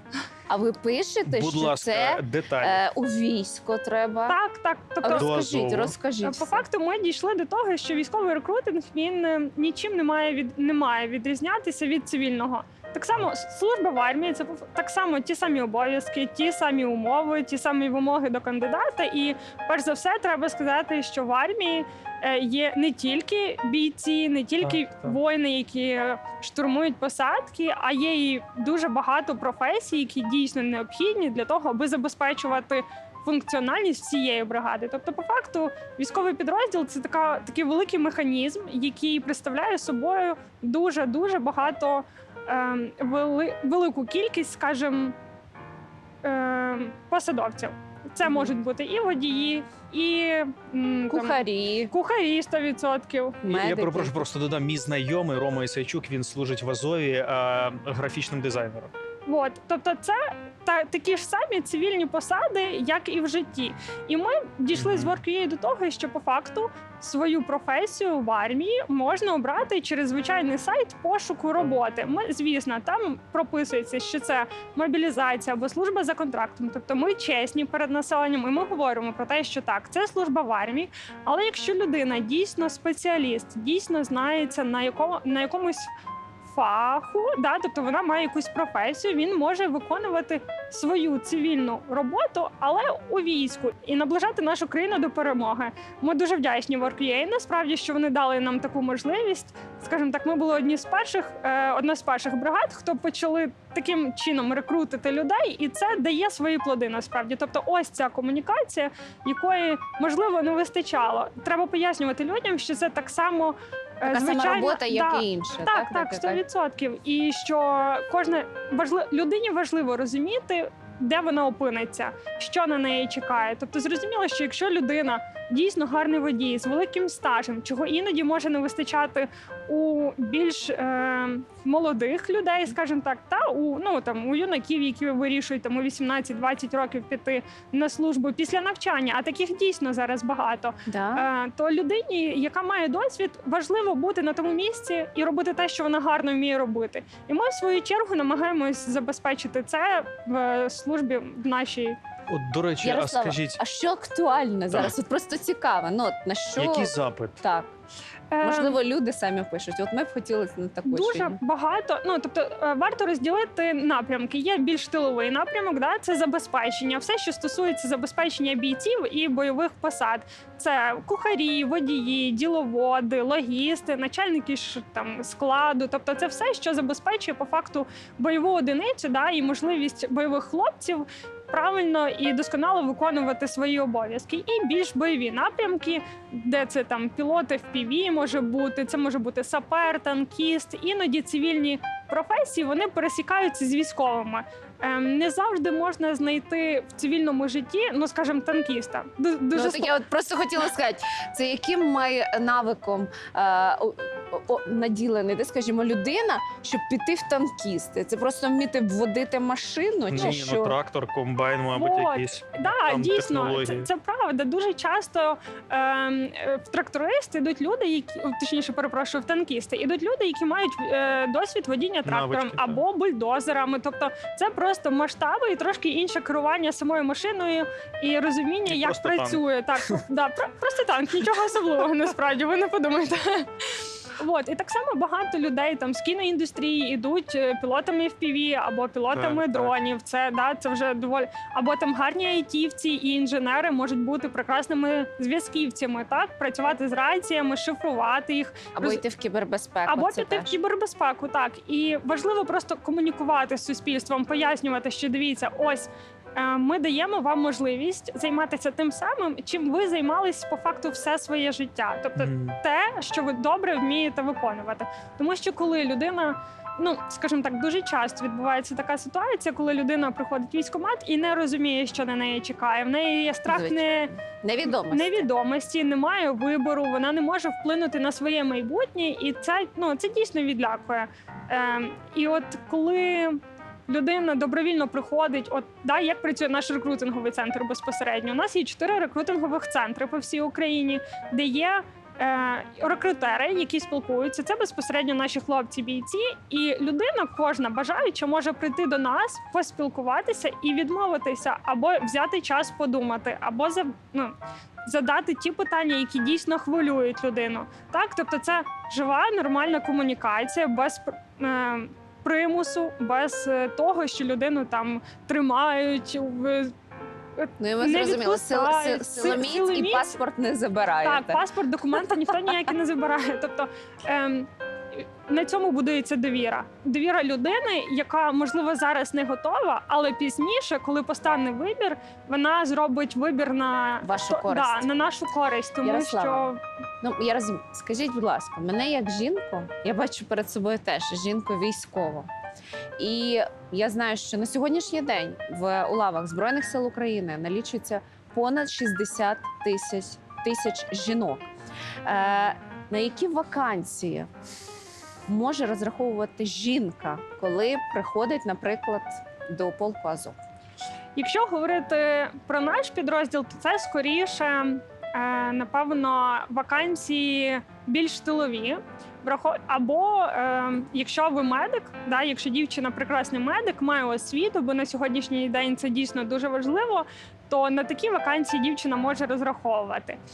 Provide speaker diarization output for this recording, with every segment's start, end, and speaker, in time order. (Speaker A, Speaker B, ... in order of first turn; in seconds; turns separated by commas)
Speaker A: 0.5-4.4, Speaker B: 1.2-2.8, Speaker C: 4.3-5.4, Speaker A: 5.0-6.7, Speaker B: 5.1-5.9, Speaker C: 6.2-45.1, Speaker B: 24.6-25.1, Speaker C: 46.2-53.4, Speaker A: 48.2-48.5, Speaker A: 51.1-51.9, Speaker A: 53.4-54.2, Speaker B: 53.5-58.9, Speaker C: 59.2-85.9, Speaker B: 64.7-65.2, Speaker C: 86.5-152.0, Speaker A: 114.0-116.4, Speaker A: 140.9-141.3, Speaker B: 152.3-153.6, Speaker A: 152.8-157.7, Speaker B: 156.6-157.4, Speaker C: 158.3-158.8, Speaker A: 158.4-161.4, Speaker C: 160.8-199.9, Speaker A: 199.5-210.8, Speaker B: 210.1-213.9, Speaker C: 211.7-249.0, Speaker B: 222.0-222.8, Speaker B: 228.7-229.4, Speaker B: 239.1-239.7, Speaker A: 248.8-250.6, Speaker C: 249.8-274.1, Speaker B: 262.2-262.6, Speaker A: 273.4-275.3, Speaker C: 274.6-316.7, Speaker C: 317.4-320.2, Speaker A: 317.6-321.4, Speaker C: 321.0-336.6, Speaker A: 322.0-322.5, Speaker A: 334.0-334.9, Speaker A: 335.8-336.5, Speaker A: 337.0-342.3, Speaker A: 343.0-351.5, Speaker A: 352.1-354.3, Speaker A: 355.3-360.4, Speaker C: 361.1-380.2